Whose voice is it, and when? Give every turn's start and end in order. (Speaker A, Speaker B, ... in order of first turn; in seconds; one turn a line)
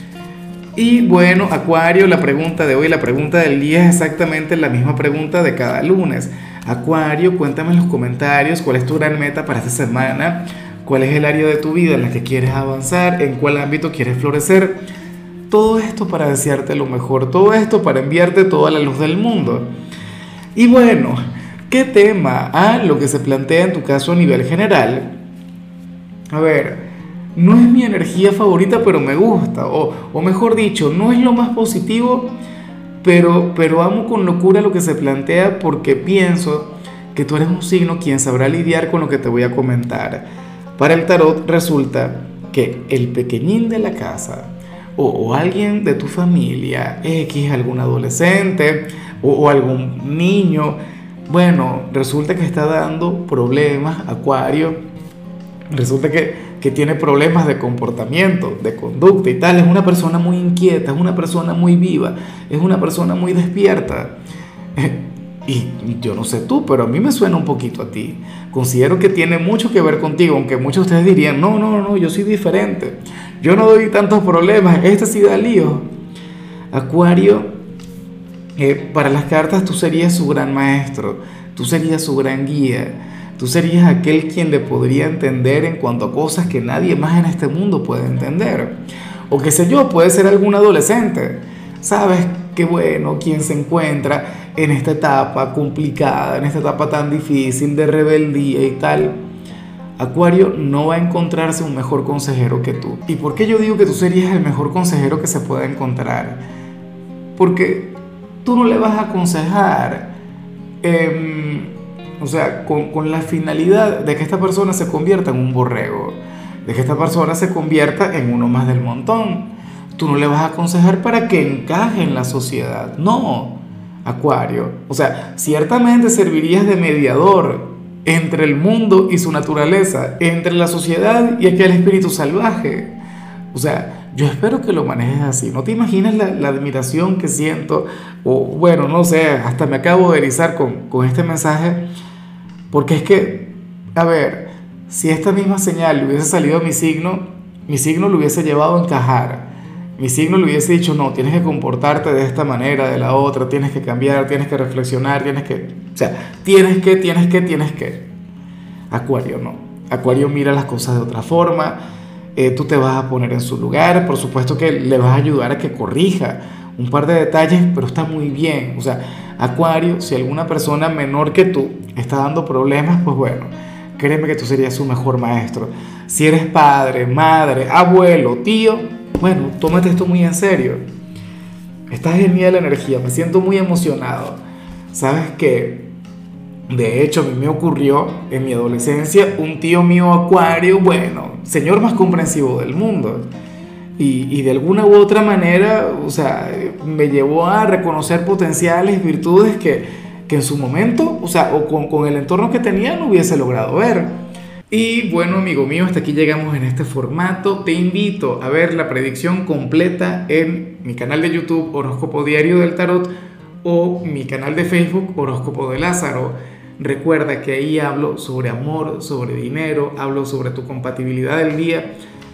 Speaker A: 0.8-14.8
Speaker A: 15.5-19.7
Speaker A: 20.6-25.0
Speaker A: 26.3-26.8
Speaker A: 27.4-32.3
Speaker A: 33.0-40.2
Speaker A: 40.8-54.8
Speaker A: 55.7-64.1
Speaker A: 64.8-75.9
Speaker A: 76.7-77.5
Speaker A: 78.6-88.7
Speaker A: 89.3-99.2
Speaker A: 100.0-106.4
Speaker A: 107.4-107.9
Speaker A: 108.4-110.1
Speaker A: 110.8-132.9
Speaker A: 133.5-141.8
Speaker A: 142.7-149.5
Speaker A: 150.0-158.0
Speaker A: 158.9-161.8
Speaker A: 162.4-180.8
Speaker A: 181.9-184.4
Speaker A: 184.9-185.9
Speaker A: 186.7-193.2
Speaker A: 194.0-204.1
Speaker A: 204.7-213.1
Speaker A: 213.6-221.9